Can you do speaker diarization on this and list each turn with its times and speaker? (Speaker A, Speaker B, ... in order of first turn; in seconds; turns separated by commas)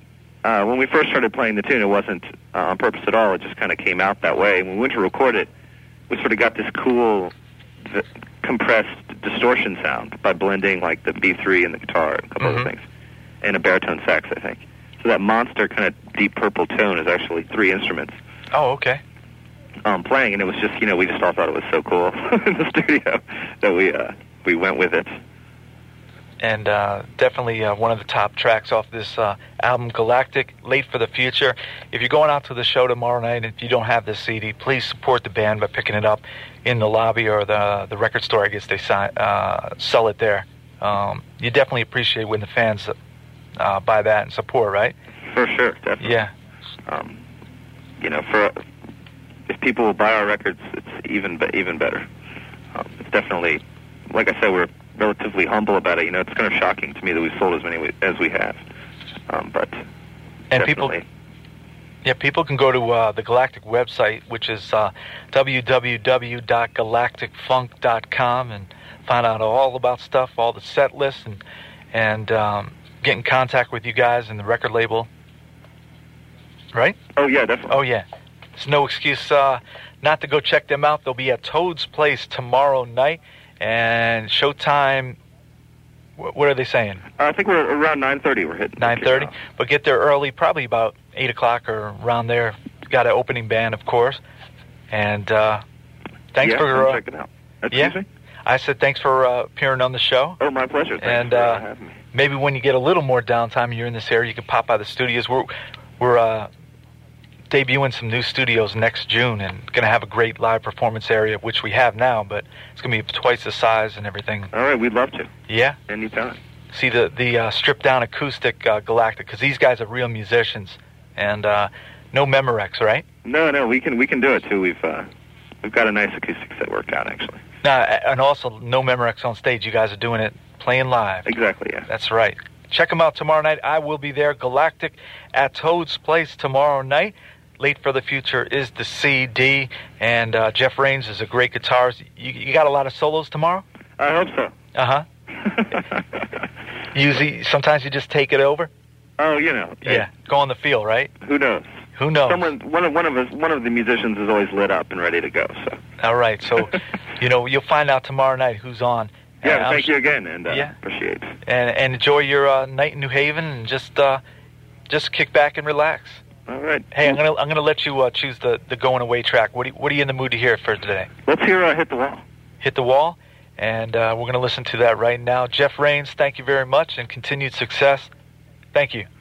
Speaker A: 0.4-5.5, Speaker A: 6.1-12.8, Speaker B: 12.4-12.7, Speaker A: 13.4-18.1, Speaker B: 18.5-19.0, Speaker A: 19.8-25.1, Speaker B: 26.4-42.9, Speaker B: 43.6-44.9, Speaker A: 45.3-46.1, Speaker B: 46.0-46.3, Speaker A: 46.9-47.2, Speaker A: 48.0-48.6, Speaker A: 49.5-52.0, Speaker A: 52.7-58.6, Speaker A: 59.3-59.8, Speaker B: 60.5-61.0, Speaker A: 60.5-61.0, Speaker B: 62.0-71.4, Speaker B: 71.9-75.1, Speaker B: 76.7-77.0, Speaker A: 77.2-77.8, Speaker B: 77.7-78.0, Speaker B: 78.6-85.2, Speaker B: 86.2-87.0, Speaker A: 87.2-89.3, Speaker B: 88.8-94.2, Speaker B: 94.9-95.6, Speaker B: 96.3-97.0, Speaker A: 96.4-98.1, Speaker B: 97.7-100.4, Speaker A: 100.4-102.0, Speaker B: 101.0-101.6, Speaker B: 102.1-106.5, Speaker B: 107.5-114.5, Speaker A: 114.5-115.3, Speaker B: 115.5-115.8, Speaker A: 115.9-116.4, Speaker B: 116.7-123.0, Speaker A: 123.2-125.1, Speaker A: 125.6-127.4, Speaker B: 127.6-131.3, Speaker A: 131.2-131.8, Speaker B: 131.9-143.6, Speaker A: 144.0-144.5, Speaker B: 144.7-145.1, Speaker A: 145.3-146.4, Speaker B: 146.9-148.7, Speaker A: 149.2-150.1, Speaker B: 149.8-151.1, Speaker A: 151.2-151.7, Speaker B: 152.0-152.5, Speaker A: 152.2-155.8, Speaker B: 156.0-159.9, Speaker A: 159.4-161.3, Speaker B: 160.5-160.7, Speaker B: 161.4-164.2, Speaker B: 164.9-166.2, Speaker A: 166.5-167.2, Speaker B: 166.9-171.1, Speaker A: 171.3-172.2, Speaker B: 172.6-178.1, Speaker B: 178.7-179.1